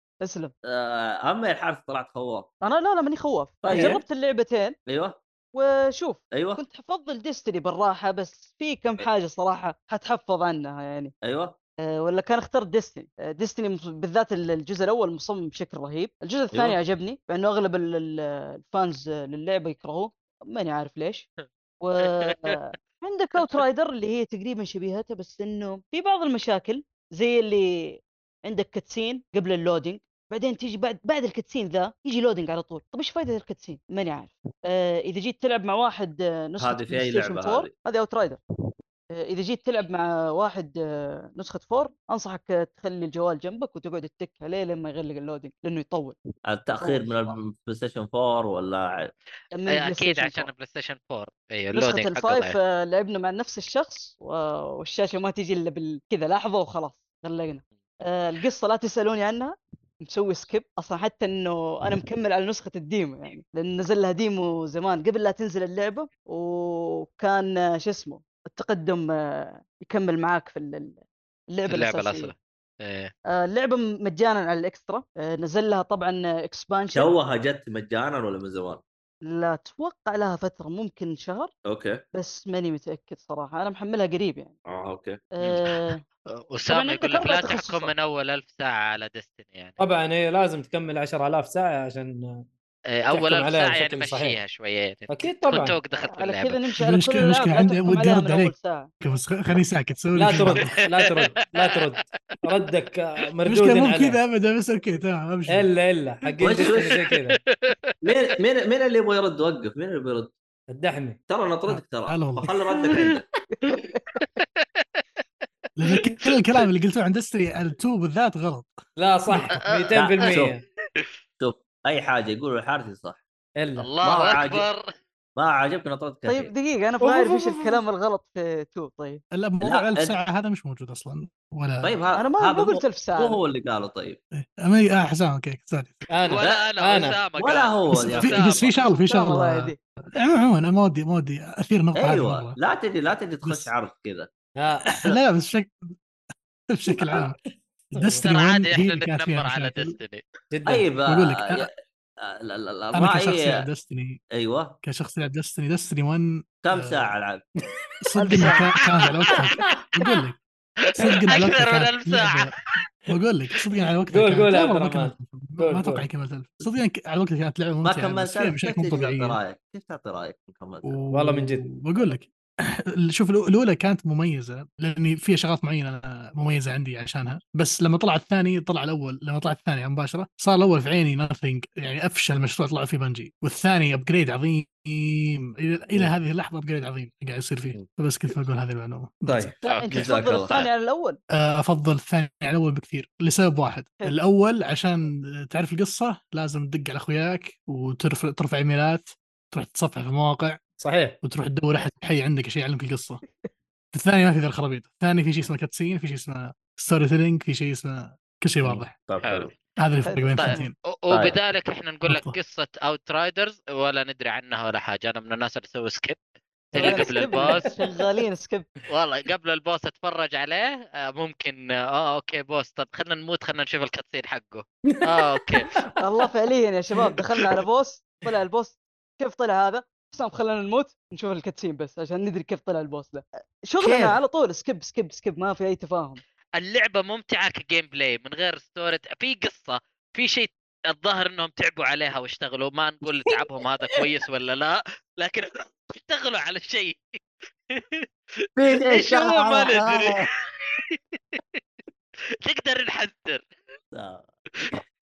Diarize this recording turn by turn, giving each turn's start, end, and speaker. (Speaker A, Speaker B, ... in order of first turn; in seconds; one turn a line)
Speaker A: 0.2-0.5
Speaker B: 0.7-2.5
Speaker A: 2.6-4.8
Speaker B: 3.6-4.0
Speaker B: 4.9-5.2
Speaker A: 5.5-11.1
Speaker B: 6.3-6.6
Speaker B: 11.2-11.6
Speaker A: 11.9-21.3
Speaker B: 16.5-16.8
Speaker A: 21.8-38.4
Speaker C: 22.3-22.6
Speaker B: 36.6-37.7
Speaker A: 39.1-46.2
Speaker B: 46.5-49.1
Speaker A: 46.8-47.4
Speaker A: 49.5-50.5
Speaker C: 49.7-52.6
Speaker A: 51.7-71.0
Speaker A: 71.5-72.3
Speaker C: 71.7-73.1
Speaker A: 73.3-77.1
Speaker B: 76.9-78.8
Speaker A: 79.3-81.5
Speaker B: 81.7-82.0
Speaker A: 82.1-84.6
Speaker B: 84.7-85.2
Speaker A: 85.3-86.0
Speaker C: 85.4-85.8
Speaker C: 86.5-89.8
Speaker A: 86.7-87.9
Speaker D: 89.8-92.5
Speaker C: 92.9-96.6
Speaker D: 93.1-94.4
Speaker D: 95.1-95.8
Speaker A: 96.0-98.9
Speaker E: 96.8-100.8
Speaker D: 100.1-104.2
Speaker E: 103.5-105.7
Speaker D: 105.5-107.4
Speaker B: 106.4-107.0
Speaker C: 107.1-107.8
Speaker B: 108.0-110.3
Speaker D: 110.7-111.2
Speaker B: 111.3-113.3
Speaker E: 111.7-112.5
Speaker A: 113.6-114.0
Speaker C: 114.2-115.0
Speaker E: 115.8-118.8
Speaker C: 115.9-116.3
Speaker D: 119.0-120.6
Speaker C: 119.7-120.1
Speaker B: 119.9-120.6
Speaker B: 121.4-123.2
Speaker D: 123.6-123.9
Speaker C: 123.8-124.9
Speaker B: 124.0-124.7
Speaker B: 125.4-126.5
Speaker A: 126.3-129.2
Speaker D: 127.0-127.8
Speaker E: 129.3-132.0
Speaker B: 129.6-130.2
Speaker B: 131.8-134.2
Speaker A: 132.1-133.4
Speaker E: 134.6-136.1
Speaker D: 136.1-137.2
Speaker C: 136.3-138.8
Speaker B: 137.4-138.5
Speaker E: 137.9-142.6
Speaker A: 138.9-139.8
Speaker B: 142.0-144.3
Speaker E: 143.4-143.7
Speaker D: 144.6-145.0
Speaker E: 144.8-145.7
Speaker E: 146.7-147.4
Speaker E: 147.9-149.9
Speaker D: 147.9-148.2
Speaker C: 148.2-150.2
Speaker D: 150.5-150.9
Speaker B: 150.7-151.7
Speaker E: 151.1-151.7
Speaker B: 152.2-153.6
Speaker E: 152.9-154.2
Speaker B: 154.3-154.8
Speaker E: 154.8-157.1
Speaker B: 156.6-157.4
Speaker E: 158.0-160.4
Speaker A: 158.2-158.8
Speaker E: 161.0-162.5
Speaker C: 161.3-162.5
Speaker E: 163.1-169.4
Speaker D: 164.1-166.1
Speaker B: 167.8-171.0
Speaker E: 170.8-172.3
Speaker D: 171.1-171.7
Speaker E: 173.1-189.5
Speaker B: 189.3-190.7
Speaker C: 189.6-189.9
Speaker A: 189.7-191.2
Speaker E: 191.3-200.6
Speaker D: 200.8-201.2
Speaker E: 201.2-203.2
Speaker E: 203.9-208.9
Speaker B: 208.6-209.5
Speaker C: 209.2-209.5
Speaker E: 209.8-210.8
Speaker A: 210.1-210.6
Speaker C: 210.4-216.2
Speaker B: 211.1-211.4
Speaker E: 212.1-212.4
Speaker C: 216.7-217.7
Speaker D: 216.7-217.7
Speaker A: 216.8-218.7
Speaker C: 218.9-225.7
Speaker D: 224.9-225.9
Speaker A: 226.0-236.2
Speaker B: 233.8-234.2
Speaker C: 236.6-247.2
Speaker C: 247.7-251.6
Speaker B: 248.6-250.3
Speaker C: 252.5-253.5
Speaker B: 253.9-254.3